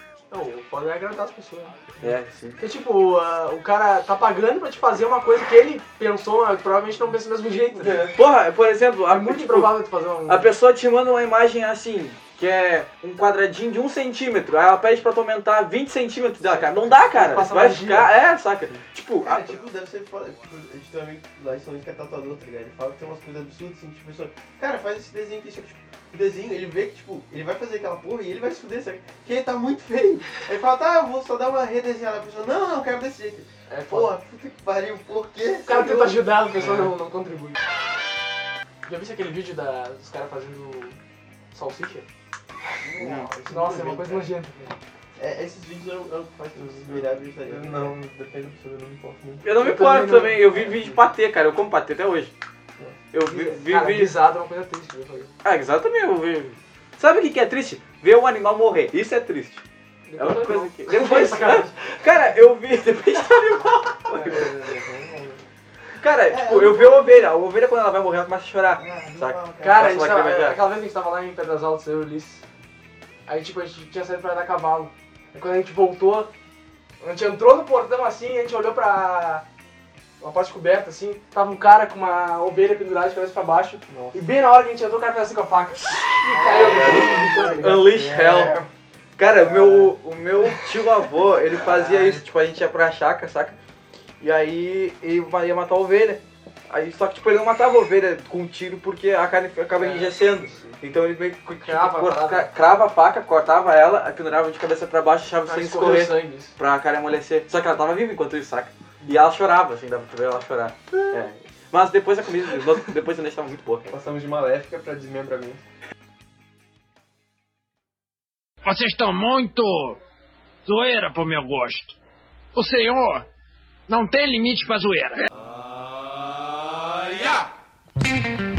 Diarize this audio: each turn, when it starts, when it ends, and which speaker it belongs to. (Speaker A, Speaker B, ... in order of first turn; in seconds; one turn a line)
Speaker A: 0.3-1.8
Speaker B: 2.0-2.6
Speaker A: 2.6-8.1
Speaker C: 7.8-8.2
Speaker B: 8.1-19.5
Speaker A: 9.1-10.5
Speaker A: 17.1-18.1
Speaker D: 19.2-36.2
Speaker A: 33.7-34.2
Speaker A: 35.6-37.6
Speaker A: 38.9-41.0
Speaker A: 41.5-42.1
Speaker D: 42.8-44.2
Speaker B: 43.0-43.3
Speaker C: 43.0-44.0
Speaker A: 43.5-44.7
Speaker D: 45.2-47.9
Speaker C: 46.6-49.4
Speaker B: 49.4-52.3
Speaker A: 49.5-50.5
Speaker C: 50.6-51.0
Speaker B: 53.1-54.2
Speaker A: 53.2-55.3
Speaker B: 55.4-59.6
Speaker A: 60.1-62.0
Speaker B: 60.2-64.5
Speaker C: 64.1-65.4
Speaker B: 66.0-70.6
Speaker D: 66.3-67.3
Speaker D: 68.8-69.8
Speaker A: 69.6-72.4
Speaker A: 73.3-76.3
Speaker A: 77.0-79.5
Speaker A: 80.2-87.9
Speaker C: 83.9-84.2
Speaker C: 86.3-88.6
Speaker B: 86.5-93.6
Speaker C: 89.2-90.0
Speaker C: 91.6-92.2
Speaker B: 94.2-113.9
Speaker A: 99.8-100.7
Speaker A: 101.6-102.5
Speaker A: 105.5-106.6
Speaker C: 113.9-115.6
Speaker E: 118.6-120.0
Speaker E: 120.7-122.0
Speaker E: 122.5-123.3
Speaker E: 123.9-125.3